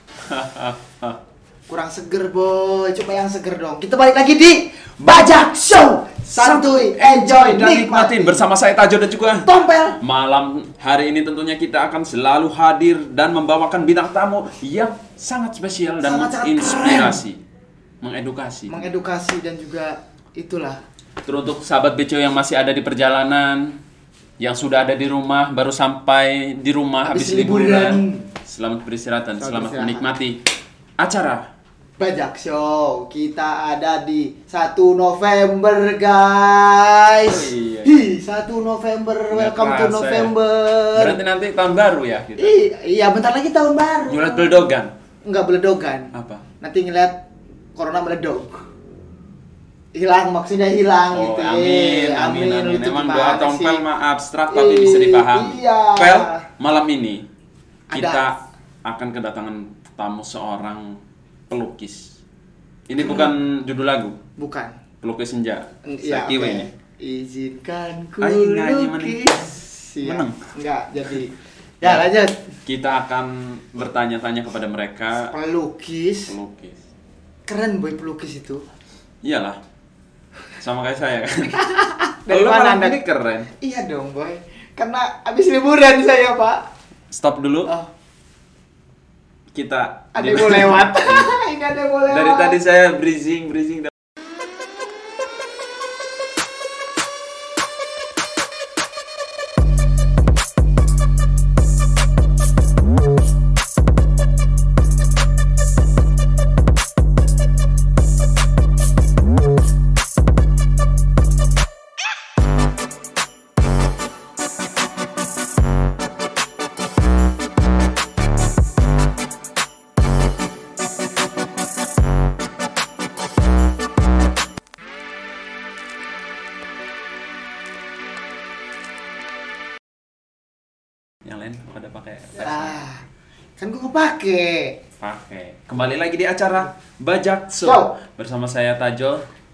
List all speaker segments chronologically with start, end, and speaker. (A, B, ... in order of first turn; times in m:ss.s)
0:00.2-0:01.2 A
0:01.7-0:08.4 B
0:06.3-0:09.5 A
0:09.4-0:10.0 B
0:10.0-0:17.4 A
0:16.0-0:17.2 B
0:18.0-0:18.9 A
0:18.7-0:20.8 B
0:21.2-0:23.8 A
0:24.4-0:30.4 A
0:27.1-0:28.3 B
0:29.4-0:30.1 B
0:31.0-0:31.4 A
0:32.0-0:41.2 B
0:37.3-0:38.0 A
0:39.3-0:40.3 A
0:41.0-0:42.6 A
0:42.4-0:44.7 B
0:44.1-0:44.9 A
0:45.3-0:47.2 B
0:46.1-0:46.4 A
0:47.8-0:48.7 B
0:50.0-0:53.8 B
0:51.1-0:57.2 A
0:54.5-0:56.4 B
0:57.9-0:58.2 B
0:57.9-1:01.0 A
1:01.5-1:02.2 A
1:02.9-1:04.2 A
1:04.4-1:04.8 B
1:05.0-1:06.7 A
1:05.9-1:12.5 B
1:08.2-1:09.3 A
1:10.0-1:10.4 A
1:12.7-1:15.3 A
1:15.3-1:16.4 B
1:16.3-1:16.8 A
1:17.5-1:18.6 B
1:19.2-1:19.6 A
1:20.6-1:21.8 A
1:21.7-1:23.0 B
1:22.3-1:23.5 A
1:23.5-1:26.7 B
1:27.1-1:27.7 A
1:29.5-1:31.3 A
1:30.2-1:32.6 B
1:32.1-1:33.9 A
2:11.2-2:12.7 A
2:12.4-2:13.0 B
2:13.6-2:14.8 B
2:15.0-2:19.2 A
2:17.6-2:17.9 B